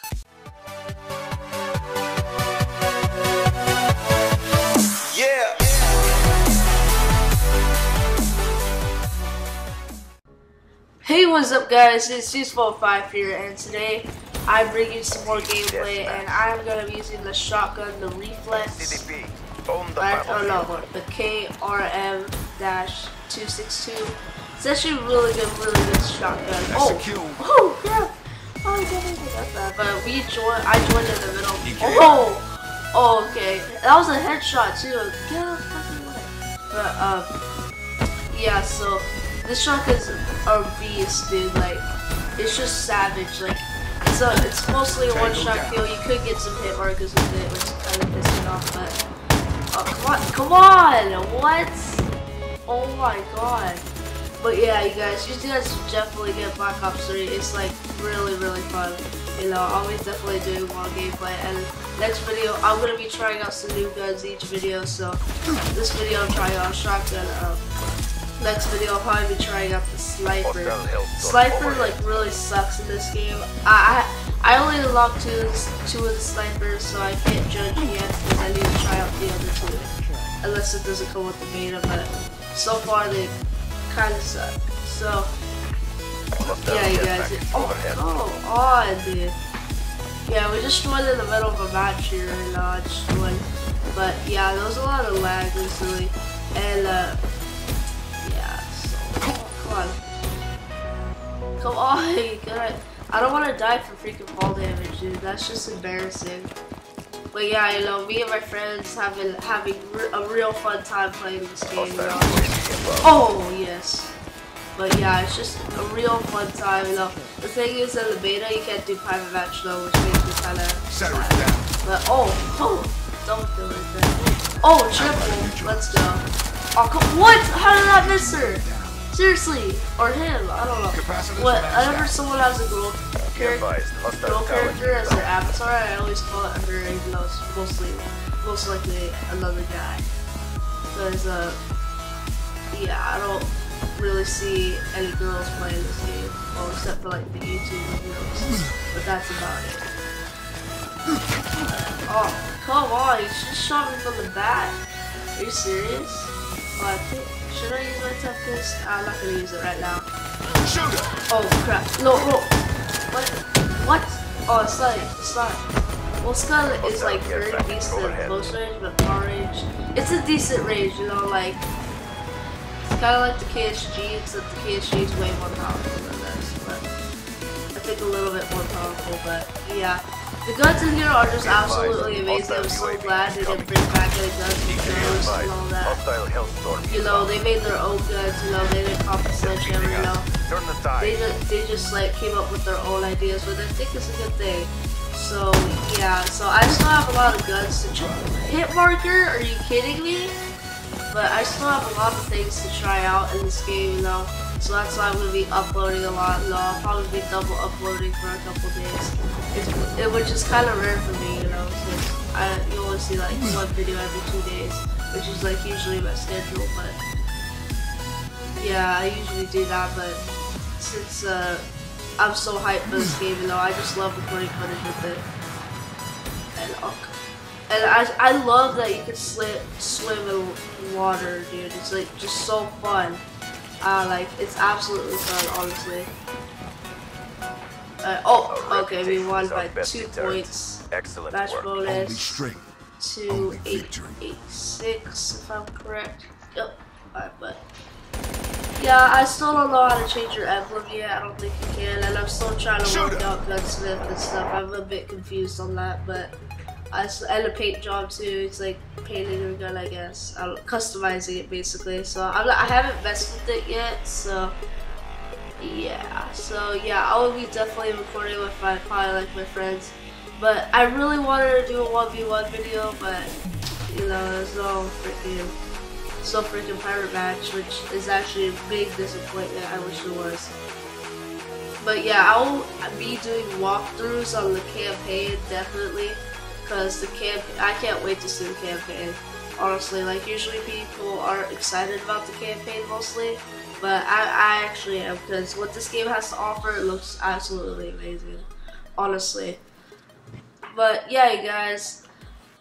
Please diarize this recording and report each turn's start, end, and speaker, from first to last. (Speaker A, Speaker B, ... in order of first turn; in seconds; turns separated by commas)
Speaker A: 5.1-5.7, Speaker B: 11.0-19.1, Speaker A: 15.1-16.4, Speaker A: 18.5-20.7, Speaker B: 20.0-37.3, Speaker C: 26.7-27.4, Speaker C: 31.6-32.1, Speaker B: 38.3-49.0, Speaker C: 45.1-45.8, Speaker B: 49.7-52.1, Speaker B: 52.7-53.9, Speaker B: 54.4-67.7, Speaker B: 68.4-79.9, Speaker A: 70.4-72.1, Speaker B: 80.4-85.3, Speaker A: 86.4-88.1, Speaker B: 86.4-89.4, Speaker B: 90.2-97.2, Speaker B: 98.2-100.0, Speaker B: 101.6-106.5, Speaker B: 107.3-114.2, Speaker A: 111.8-113.1, Speaker B: 114.8-133.7, Speaker C: 120.9-121.7, Speaker C: 125.0-126.1, Speaker C: 127.5-129.1, Speaker C: 130.9-132.2, Speaker A: 133.3-135.3, Speaker B: 134.2-140.1, Speaker B: 140.9-141.6, Speaker B: 142.7-149.9, Speaker B: 151.7-154.8, Speaker B: 155.3-160.1, Speaker C: 160.6-161.1, Speaker B: 161.3-162.5, Speaker B: 163.1-165.6, Speaker B: 166.2-171.6, Speaker A: 166.8-168.5, Speaker B: 172.8-176.9, Speaker B: 177.7-186.0, Speaker A: 181.4-184.1, Speaker A: 184.7-187.4, Speaker B: 186.9-190.3, Speaker A: 189.4-191.2, Speaker B: 191.0-200.4, Speaker B: 201.1-217.0, Speaker B: 218.6-220.2, Speaker B: 220.8-221.6, Speaker B: 222.2-225.3, Speaker B: 226.6-227.1, Speaker B: 227.7-233.2, Speaker B: 233.8-236.1, Speaker B: 238.0-242.4, Speaker A: 238.5-241.7, Speaker C: 241.8-242.7, Speaker B: 243.0-247.6, Speaker C: 243.3-244.2, Speaker B: 248.8-256.3, Speaker C: 252.8-253.3, Speaker B: 256.9-264.6, Speaker B: 265.6-273.3, Speaker B: 273.9-275.6, Speaker B: 276.2-280.5, Speaker B: 281.8-299.6, Speaker B: 300.7-302.0